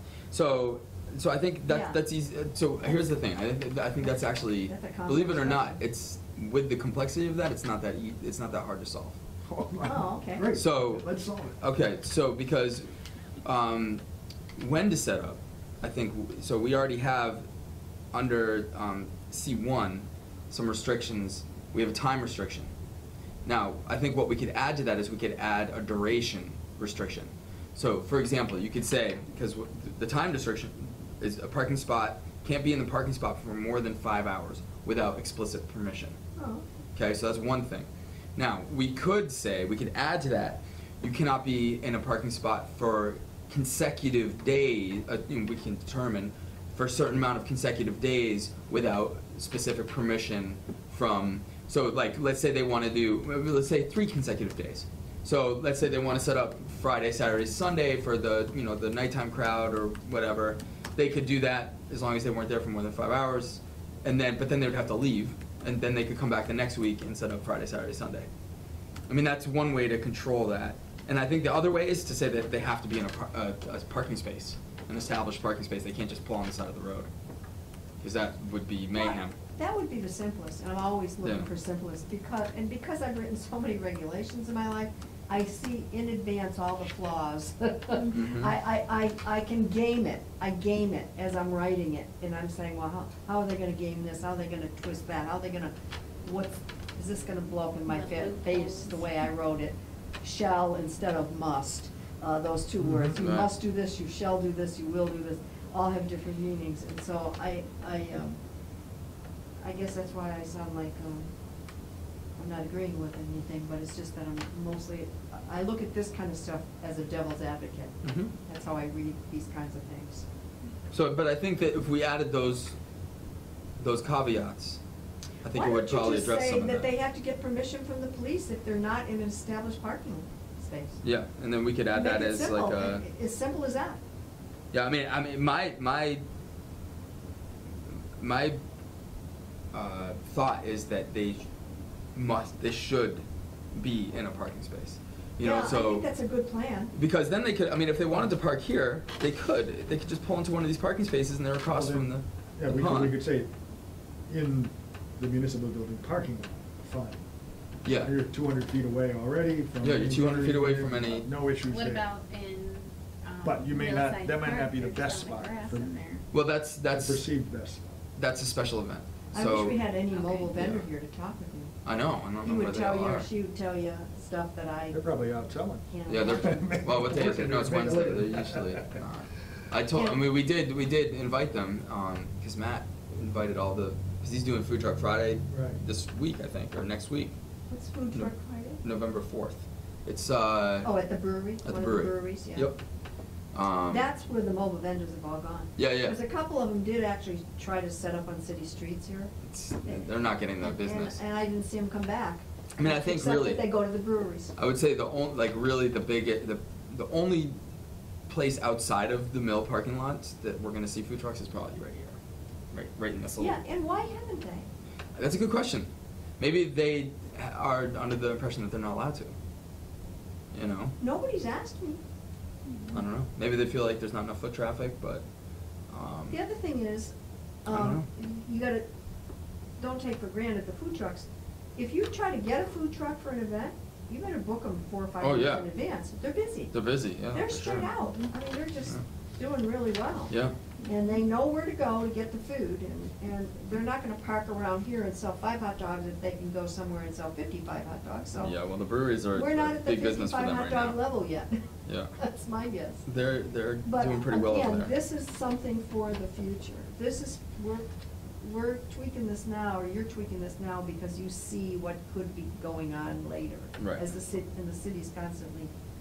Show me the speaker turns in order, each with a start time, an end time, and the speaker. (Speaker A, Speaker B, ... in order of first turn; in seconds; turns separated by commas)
Speaker A: 0.3-9.2, Speaker B: 1.7-2.0, Speaker B: 4.5-5.8, Speaker C: 9.5-11.6, Speaker B: 9.8-10.5, Speaker A: 10.5-11.0, Speaker A: 11.6-12.8, Speaker A: 13.4-14.0, Speaker A: 14.6-17.4, Speaker A: 18.1-22.7, Speaker A: 23.4-36.2, Speaker B: 36.4-36.6, Speaker A: 36.9-68.3, Speaker A: 69.1-77.1, Speaker A: 78.0-79.3, Speaker B: 79.0-95.7, Speaker A: 81.2-81.5, Speaker A: 88.1-88.5, Speaker B: 96.2-108.4, Speaker D: 97.9-99.1, Speaker A: 102.8-103.5, Speaker B: 109.6-111.3, Speaker B: 112.4-120.2, Speaker A: 118.0-118.3, Speaker A: 120.9-122.7, Speaker A: 123.8-124.8, Speaker A: 125.4-126.9, Speaker B: 125.5-131.0, Speaker A: 131.0-133.0, Speaker B: 131.9-134.0, Speaker A: 134.7-136.2, Speaker A: 138.2-138.6, Speaker A: 139.7-141.4, Speaker A: 142.1-146.1, Speaker B: 145.4-146.9, Speaker A: 146.9-153.2, Speaker C: 151.7-153.5, Speaker C: 154.3-157.2, Speaker A: 157.8-158.1, Speaker C: 157.9-162.1, Speaker A: 159.8-161.3, Speaker D: 161.6-166.2, Speaker C: 163.4-166.0, Speaker A: 166.3-167.3, Speaker C: 166.9-168.0, Speaker A: 168.2-169.8, Speaker B: 169.3-171.8, Speaker D: 170.1-170.4, Speaker A: 170.4-170.8, Speaker A: 171.8-173.3, Speaker B: 172.4-175.0, Speaker C: 174.9-175.9, Speaker B: 175.9-176.7, Speaker A: 176.1-187.3, Speaker C: 176.4-179.0, Speaker B: 179.9-180.2, Speaker C: 185.5-185.8, Speaker B: 187.7-188.8, Speaker A: 188.8-190.9, Speaker B: 190.8-192.7, Speaker A: 191.6-192.8, Speaker A: 193.5-194.0, Speaker B: 193.9-199.3, Speaker A: 195.8-196.2, Speaker A: 199.4-201.2, Speaker B: 199.8-204.5, Speaker A: 202.8-203.6, Speaker A: 204.6-207.5, Speaker A: 208.3-212.2, Speaker A: 212.7-213.6, Speaker B: 213.4-214.7, Speaker A: 215.2-215.9, Speaker A: 216.4-219.3, Speaker A: 220.5-220.9, Speaker B: 221.0-222.0, Speaker A: 222.9-225.2, Speaker A: 225.9-226.4, Speaker B: 226.3-227.1, Speaker B: 227.6-228.8, Speaker A: 227.7-228.1, Speaker B: 229.8-236.7, Speaker A: 235.2-235.7, Speaker A: 236.7-237.9, Speaker B: 237.3-248.6, Speaker A: 240.3-240.6, Speaker A: 248.4-251.0, Speaker B: 249.3-251.6, Speaker A: 251.9-252.1, Speaker B: 252.2-253.0, Speaker A: 253.1-254.9, Speaker B: 253.8-257.9, Speaker B: 258.4-265.7, Speaker A: 263.8-264.0